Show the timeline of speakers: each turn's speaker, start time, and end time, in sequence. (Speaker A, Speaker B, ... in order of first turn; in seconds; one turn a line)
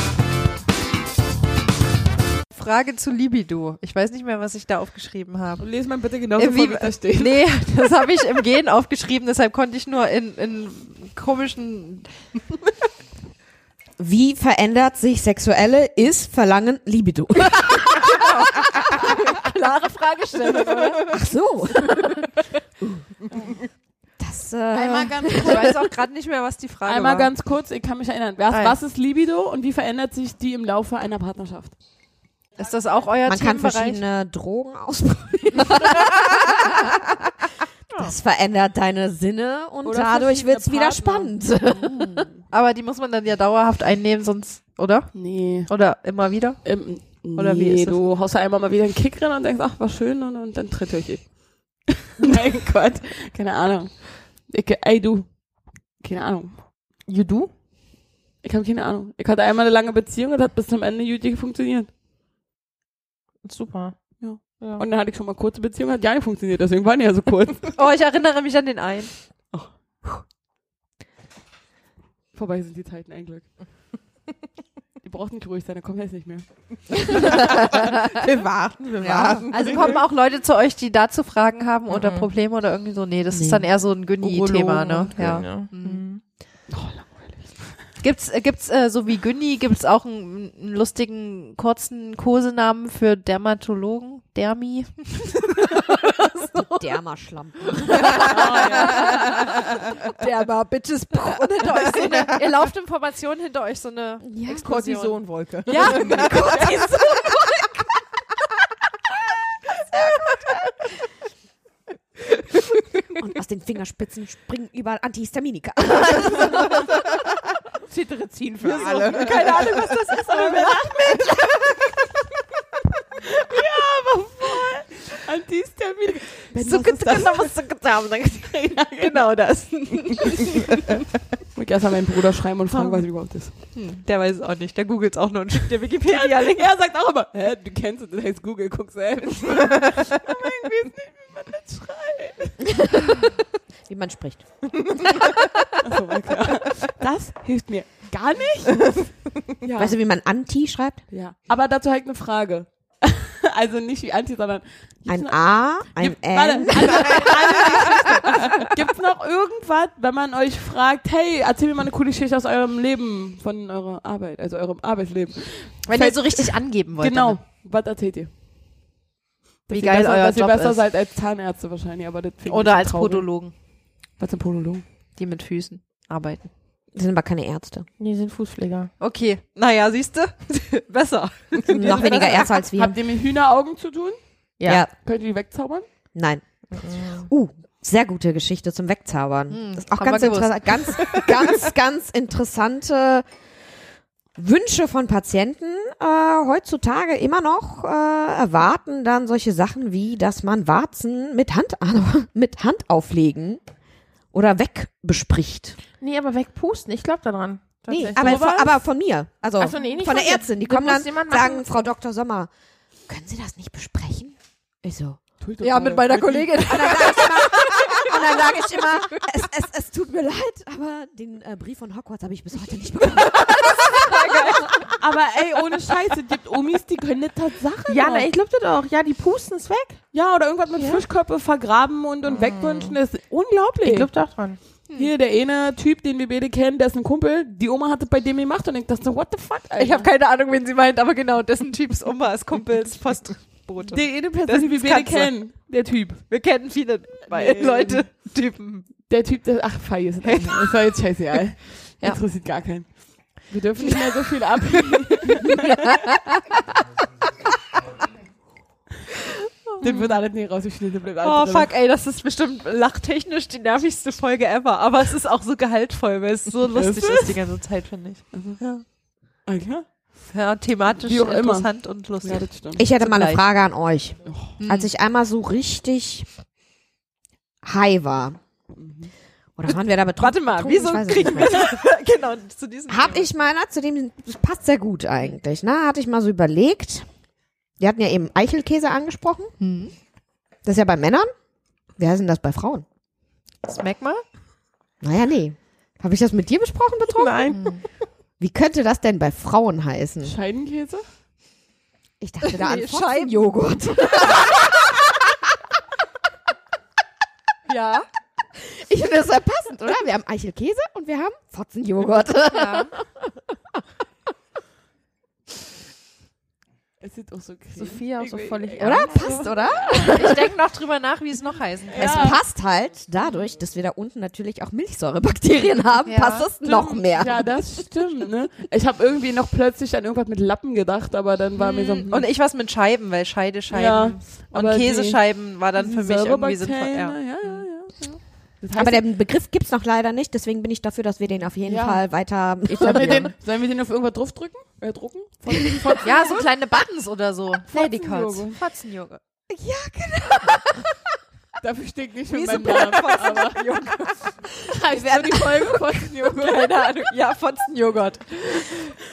Speaker A: 2.5-5.6
Speaker B: 5.6-7.4
Speaker A: 6.3-12.1
Speaker C: 14.0-19.1
Speaker A: 17.7-21.2
Speaker C: 21.1-22.3
Speaker C: 24.2-25.7
Speaker B: 24.7-25.8
Speaker A: 25.4-27.3
Speaker B: 26.9-31.7
Speaker A: 28.5-28.8
Speaker A: 32.6-34.0
Speaker C: 33.2-37.3
Speaker C: 37.9-42.2
Speaker B: 39.8-42.3
Speaker A: 42.5-48.0
Speaker B: 45.1-45.7
Speaker B: 46.6-55.4
Speaker B: 56.0-56.6
Speaker D: 57.1-57.5
Speaker B: 58.4-61.9
Speaker D: 63.4-64.8
Speaker B: 64.2-67.8
Speaker A: 67.7-69.1
Speaker B: 72.3-73.5
Speaker B: 75.0-77.0
Speaker C: 77.2-80.0
Speaker A: 77.3-78.0
Speaker D: 77.3-79.8
Speaker A: 79.5-86.0
Speaker D: 81.9-82.3
Speaker C: 83.3-83.6
Speaker D: 84.2-86.2
Speaker B: 86.7-87.5
Speaker A: 88.0-96.8
Speaker C: 96.5-99.5
Speaker A: 98.0-99.7
Speaker B: 98.2-99.0
Speaker A: 101.1-106.7
Speaker C: 104.2-104.7
Speaker D: 104.5-106.6
Speaker C: 105.7-107.6
Speaker C: 113.2-116.9
Speaker D: 117.9-119.7
Speaker A: 118.6-120.8
Speaker B: 118.8-121.6
Speaker B: 123.2-127.6
Speaker A: 126.6-128.1
Speaker B: 128.4-129.3
Speaker A: 129.0-130.8
Speaker B: 131.6-133.5
Speaker A: 133.5-136.7
Speaker B: 136.0-142.7
Speaker C: 142.8-143.2
Speaker C: 143.9-145.2
Speaker B: 145.8-149.1
Speaker B: 149.6-149.9
Speaker C: 149.8-151.0
Speaker B: 151.1-168.3
Speaker C: 155.1-158.1
Speaker A: 165.9-167.4
Speaker B: 169.7-173.3
Speaker A: 169.7-170.8
Speaker A: 172.4-173.5
Speaker B: 174.2-174.8
Speaker A: 175.2-176.5
Speaker C: 176.9-177.9
Speaker D: 178.0-178.9
Speaker A: 179.0-182.6
Speaker C: 181.7-183.0
Speaker B: 182.8-184.2
Speaker D: 184.6-184.8
Speaker C: 184.6-184.9
Speaker B: 185.0-185.8
Speaker C: 186.1-193.2
Speaker D: 186.8-187.2
Speaker A: 189.5-191.4
Speaker C: 194.3-203.6
Speaker C: 204.3-205.8
Speaker D: 206.0-208.4
Speaker C: 207.9-212.5
Speaker B: 208.1-208.7
Speaker D: 209.6-211.7
Speaker C: 213.1-215.2
Speaker B: 215.4-216.7
Speaker A: 215.6-218.5
Speaker C: 216.3-224.9
Speaker A: 223.4-224.7
Speaker B: 225.0-228.3
Speaker D: 227.9-230.0
Speaker B: 230.1-234.1
Speaker D: 230.8-231.0
Speaker D: 232.4-232.9
Speaker D: 233.8-234.6
Speaker B: 234.9-240.1
Speaker A: 239.8-245.4
Speaker B: 243.8-246.2
Speaker A: 246.3-248.9
Speaker B: 247.3-248.1
Speaker B: 249.1-255.9
Speaker A: 250.2-250.7
Speaker A: 259.7-260.2
Speaker B: 259.8-261.7
Speaker A: 261.2-268.8
Speaker B: 266.7-267.4
Speaker B: 268.3-268.6
Speaker B: 269.4-269.9
Speaker A: 270.3-273.4
Speaker B: 271.0-271.7
Speaker B: 272.2-272.8
Speaker C: 272.8-276.3
Speaker B: 274.2-274.5
Speaker A: 274.6-274.9
Speaker C: 277.6-278.4
Speaker B: 278.8-279.1
Speaker C: 279.6-281.7
Speaker A: 279.7-283.3
Speaker C: 282.9-287.1
Speaker C: 287.8-289.5
Speaker A: 289.6-289.9
Speaker C: 290.6-291.3
Speaker C: 292.0-292.8
Speaker A: 293.6-294.2
Speaker C: 295.0-297.5
Speaker D: 297.1-297.7
Speaker A: 297.5-297.8
Speaker C: 298.4-300.3
Speaker B: 300.2-301.0
Speaker C: 302.2-305.4
Speaker A: 302.4-303.5
Speaker A: 304.2-304.5
Speaker A: 307.7-308.1
Speaker C: 308.5-313.8
Speaker A: 312.5-312.9
Speaker B: 317.0-319.6
Speaker D: 317.8-319.5
Speaker C: 318.8-320.5
Speaker A: 319.9-322.4
Speaker B: 321.9-322.4
Speaker C: 322.0-327.7
Speaker A: 326.1-326.5
Speaker B: 326.6-332.3
Speaker A: 331.6-337.6
Speaker B: 333.7-335.2
Speaker B: 335.7-339.0
Speaker C: 338.8-343.3
Speaker B: 341.7-342.0
Speaker B: 342.7-346.4
Speaker D: 342.7-343.3
Speaker C: 345.5-346.1
Speaker A: 346.0-349.2
Speaker B: 347.7-348.6
Speaker C: 349.5-350.9
Speaker B: 351.6-353.6
Speaker A: 352.3-354.2
Speaker B: 354.6-356.8
Speaker C: 354.9-355.6
Speaker A: 356.2-358.9